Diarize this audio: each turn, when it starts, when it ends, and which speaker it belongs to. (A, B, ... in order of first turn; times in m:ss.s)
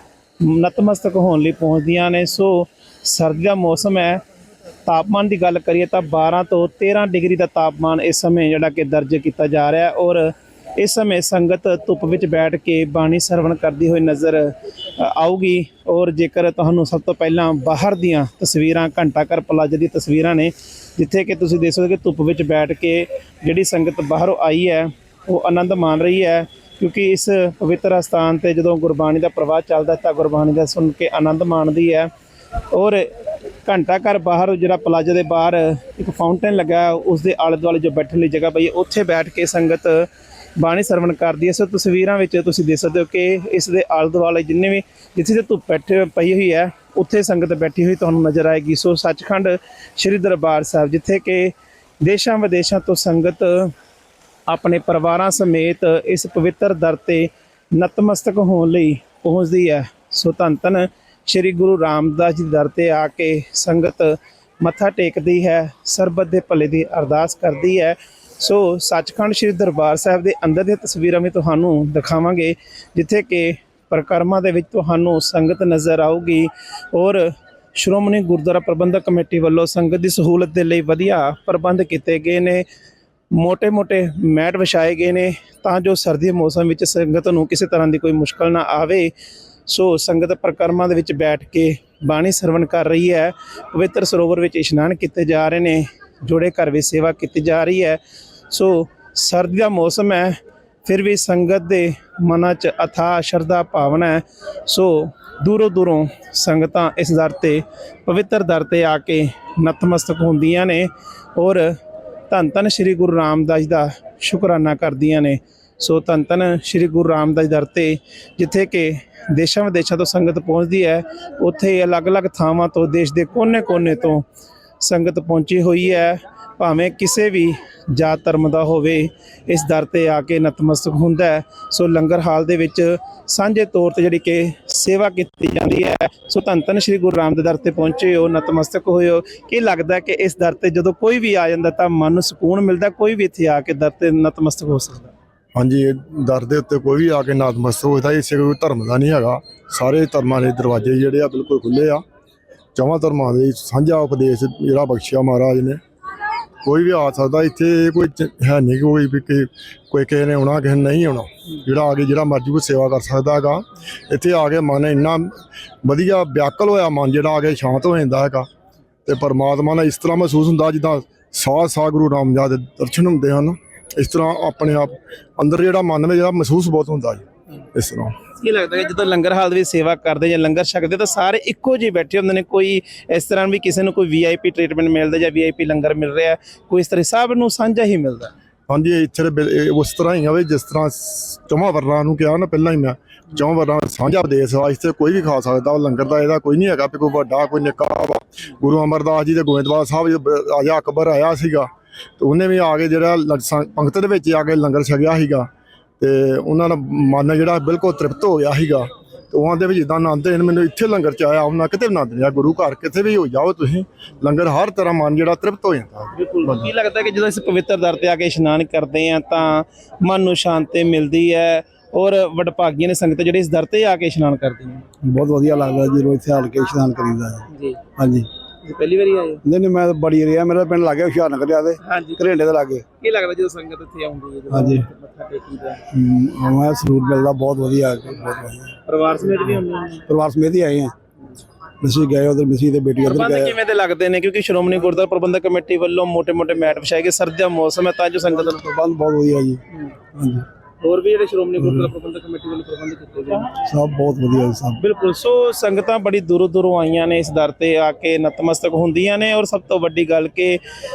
0:00.4-0:04.2 A
0:04.9-0:32.1 A
0:32.7-0:33.1 A
0:33.6-0:53.7 A
0:54.5-1:22.6 A
1:23.3-1:29.1 A
1:29.7-1:51.8 A
1:52.3-2:04.3 A
2:04.8-2:25.1 A
2:25.6-2:32.0 B
2:32.8-2:35.8 B
2:36.6-2:48.5 B
2:49.1-2:57.2 B
2:57.8-2:58.2 B
2:58.3-3:08.3 A
3:08.7-3:36.7 B
3:36.1-3:44.8 A
3:45.0-3:48.3 C
3:47.5-3:47.8 A
3:48.6-3:49.4 A
3:49.4-3:52.8 C
3:51.8-3:52.2 A
3:53.0-3:55.8 A
3:54.5-3:54.9 C
3:55.9-3:58.8 C
3:58.9-4:00.1 A
4:00.1-4:00.9 C
4:01.8-4:03.6 C
4:03.0-4:08.6 A
4:08.4-4:09.6 C
4:10.2-4:10.5 C
4:10.8-4:13.6 A
4:11.6-4:11.9 C
4:13.6-4:14.8 C
4:14.8-4:20.6 A